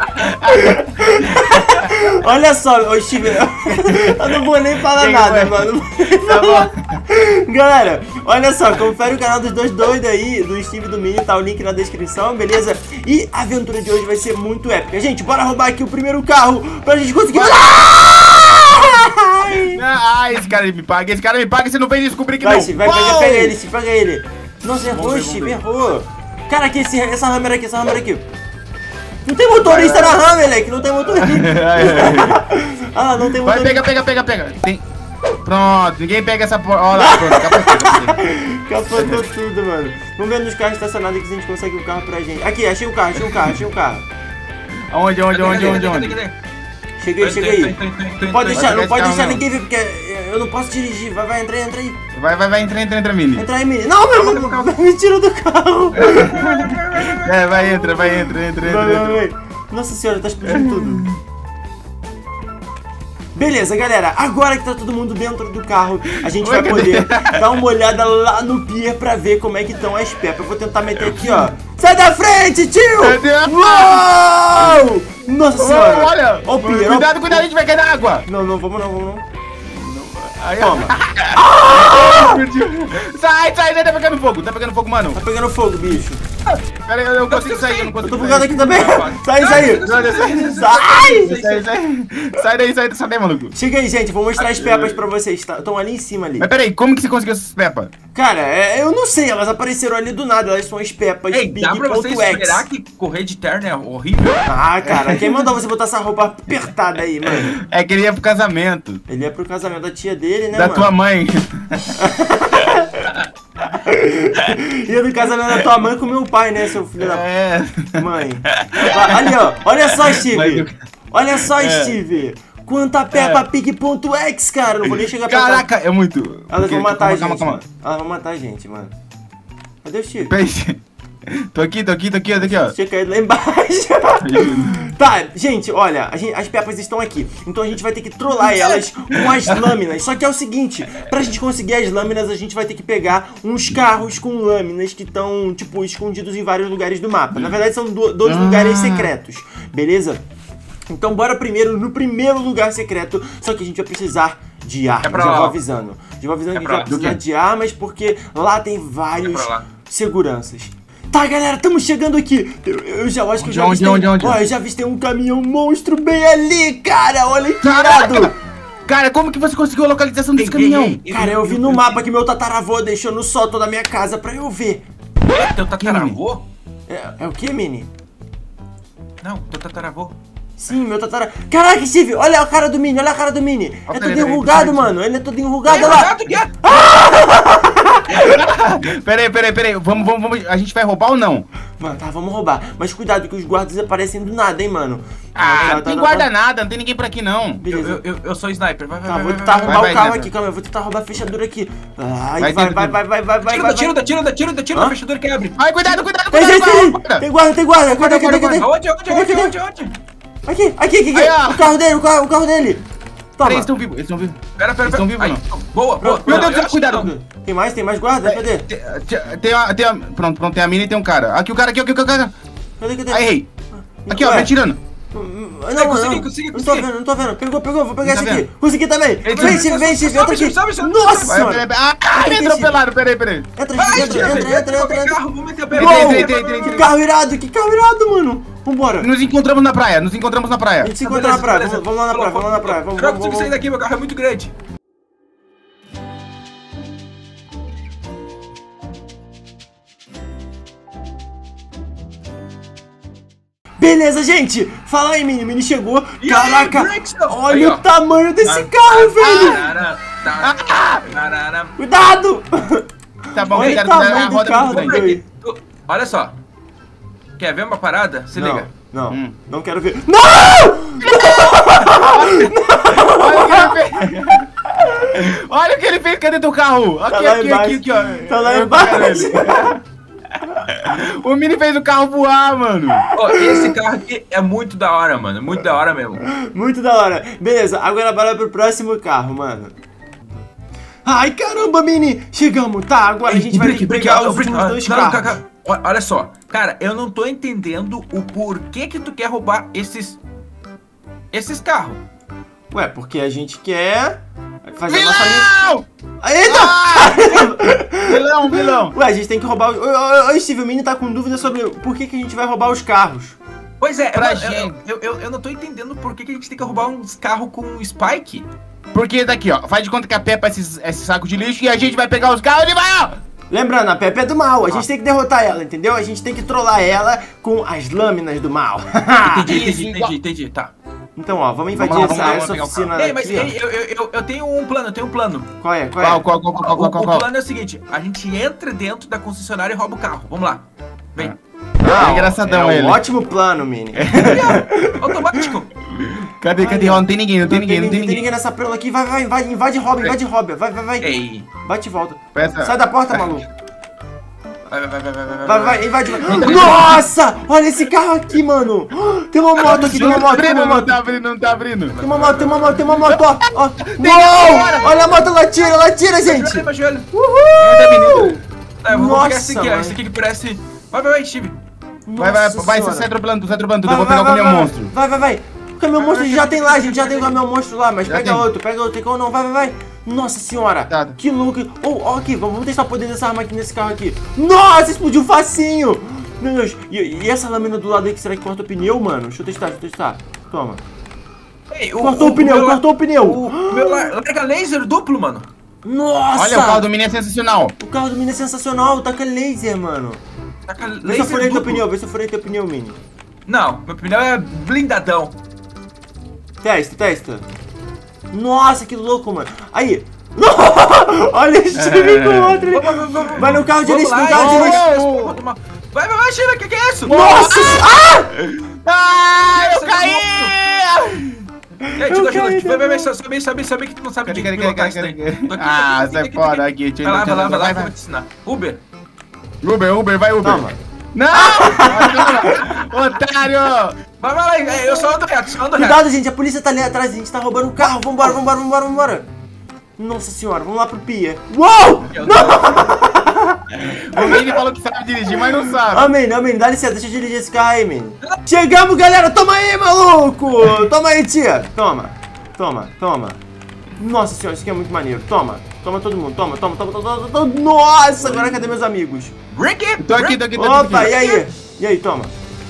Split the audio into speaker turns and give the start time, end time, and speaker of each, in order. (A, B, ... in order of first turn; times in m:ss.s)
0:00.2-0:01.9 A
0:00.4-0:19.8 B
0:03.7-0:04.4 A
0:05.0-0:05.7 A
0:06.2-0:07.0 A
0:17.3-0:17.8 A
0:19.6-0:23.6 A
0:22.4-0:28.2 B
0:24.8-0:25.6 A
0:29.2-0:33.9 B
0:29.6-0:30.2 A
0:31.2-0:32.4 A
0:33.4-0:34.8 A
0:35.4-0:38.2 A
0:37.0-0:44.1 B
0:38.9-0:39.2 A
0:44.9-0:46.2 A
0:45.3-0:46.3 C
0:45.5-0:45.8 B
0:47.0-0:47.8 B
0:47.2-0:48.8 C
0:48.3-0:52.0 B
0:48.5-0:49.4 A
0:52.1-0:53.4 A
0:53.4-0:56.5 B
0:54.1-0:54.7 C
0:56.0-0:57.8 C
0:56.0-0:59.2 A
0:58.0-1:01.1 B
1:00.5-1:01.2 A
1:03.3-1:17.5 B
1:06.3-1:07.4 A
1:11.0-1:11.5 A
1:13.0-1:14.1 A
1:14.6-1:14.9 A
1:15.6-1:18.2 A
1:18.2-1:19.2 B
1:19.6-1:25.2 A
1:20.6-1:22.4 B
1:25.2-1:26.2 B
1:26.7-1:28.7 A
1:27.3-1:31.7 C
1:28.0-1:29.8 B
1:29.4-1:33.5 A
1:30.4-1:31.4 B
1:33.5-1:36.5 B
1:34.4-1:35.0 A
1:36.4-1:37.9 A
1:38.1-1:42.7 B
1:41.3-1:44.5 C
1:44.4-1:47.6 B
1:44.9-1:45.4 A
1:47.5-1:49.0 A
1:49.1-1:50.9 B
1:50.5-1:52.0 A
1:52.0-1:53.1 B
1:53.7-1:57.3 B
1:57.0-2:00.8 A
1:58.0-2:05.7 B
2:01.4-2:02.0 A
2:03.1-2:03.4 A
2:05.0-2:07.6 A
2:06.5-2:09.0 B
2:09.8-2:10.3 B
2:10.3-2:12.7 A
2:12.4-2:30.2 B
2:14.2-2:14.9 A
2:28.2-2:29.1 A
2:30.9-2:48.3 B
2:35.0-2:35.6 C
2:36.5-2:37.1 C
2:39.2-2:39.7 C
2:43.4-2:44.4 A
2:47.6-2:48.3 A
2:48.8-2:51.0 A
2:50.4-2:52.0 C
2:51.1-2:54.8 B
2:55.3-2:56.4 C
2:55.8-2:56.2 A
2:56.9-2:57.9 B
2:59.2-3:00.1 C
3:00.6-3:08.3 B
3:03.9-3:04.9 A
3:05.7-3:06.5 C
3:08.1-3:11.5 A
3:11.8-3:16.3 B
3:15.3-3:17.6 A
3:17.6-3:18.0 B
3:17.7-3:19.9 C
3:19.0-3:24.0 B
3:19.7-3:20.3 A
3:22.4-3:23.0 A
3:23.4-3:25.6 C
3:25.6-3:27.2 A
3:26.3-3:29.5 B
3:27.9-3:29.9 C
3:30.4-3:32.8 B
3:31.1-3:31.7 A
3:33.4-3:33.7 B
3:33.4-3:35.4 A
3:34.6-3:37.1 C
3:36.0-3:38.7 B
3:36.2-3:37.1 A
3:38.2-3:42.3 A
3:42.8-3:43.3 B
3:43.1-3:43.5 A
3:44.0-3:44.5 B
3:44.1-3:44.8 A
3:45.1-3:52.8 B
3:45.8-3:46.9 C
3:48.0-3:48.5 A
3:49.2-3:49.6 A
3:49.2-3:51.3 C
3:51.2-3:54.5 A
3:53.6-3:55.2 B
3:53.8-3:56.8 C
3:55.7-3:59.1 B
3:55.8-3:56.9 A
3:59.0-4:00.9 A
4:00.8-4:03.6 B
4:01.0-4:04.5 C
4:13.8-4:19.6 B
4:16.2-4:17.8 C
4:18.4-4:21.7 C
4:19.2-4:19.7 A
4:20.4-4:21.1 A
4:21.8-4:22.9 B
4:23.3-4:25.1 A
4:23.5-4:25.2 B
4:23.5-4:26.4 C
4:27.4-4:28.7 C
4:28.4-4:33.8 B
4:29.1-4:29.4 A
4:31.0-4:34.5 A
4:35.1-4:39.8 A
4:37.1-4:39.8 B
4:40.6-4:43.1 A
4:43.1-4:46.2 C
4:43.5-4:43.7 B
4:46.3-4:49.8 B
4:51.0-4:55.4 B
4:53.3-5:00.2 C
5:01.3-5:02.0 C
5:02.7-5:05.5 B
5:04.9-5:05.9 A
5:06.2-5:13.4 B
5:06.5-5:08.9 A
5:13.8-5:18.5 C
5:14.1-5:14.8 A
5:18.9-5:23.2 A
5:23.5-5:29.6 B
5:29.2-5:30.7 C
5:29.5-5:30.2 A
5:31.2-5:33.5 B
5:31.8-5:32.9 A
5:31.9-5:35.5 C
5:35.6-5:36.2 B
5:36.0-5:37.3 A
5:36.6-5:41.4 C
5:41.2-5:43.0 A
5:41.8-5:45.5 B
5:43.9-5:44.6 A
5:44.2-5:45.7 C
5:45.9-5:48.2 A
5:46.6-5:53.5 B
5:51.0-5:51.5 C
5:52.4-5:52.7 A
5:54.7-5:57.1 C
5:55.4-6:01.0 B
5:59.6-6:02.0 A
6:01.9-6:02.9 C
6:02.0-6:10.0 B
6:03.1-6:03.3 A
6:03.9-6:04.9 A
6:06.2-6:07.1 C
6:07.6-6:08.4 A
6:08.8-6:11.6 C
6:12.1-6:13.1 B
6:12.2-6:14.9 A
6:13.8-6:30.8 B
6:16.0-6:17.4 C
6:18.1-6:18.4 A
6:20.9-6:21.2 A
6:31.7-6:35.5 C
6:32.0-6:34.1 B
6:35.8-6:36.9 B
6:36.4-6:37.8 A
6:37.8-6:40.2 B
6:40.7-6:41.9 C
6:41.0-6:43.0 B
6:43.5-6:45.4 C
6:46.6-6:47.4 B
6:48.3-6:54.8 B
6:51.8-6:52.6 A
6:52.7-6:57.2 C
6:54.3-6:55.4 A
6:57.1-7:01.4 A
6:57.1-6:58.3 B
6:59.6-7:00.5 C
7:01.8-7:03.1 B
7:02.0-7:08.8 C
7:04.2-7:07.9 A
7:09.6-7:10.6 A
7:10.4-7:10.8 B
7:11.1-7:14.0 A
7:11.3-7:12.7 B
7:14.2-7:16.0 C
7:15.7-7:19.2 B
7:20.0-7:23.6 B
7:22.1-7:22.9 C
7:23.8-7:26.1 A
7:24.2-7:24.5 B
7:25.9-7:33.4 B
7:34.0-7:39.4 B
7:39.5-7:40.4 C
7:40.0-7:41.3 A
7:40.6-7:42.3 B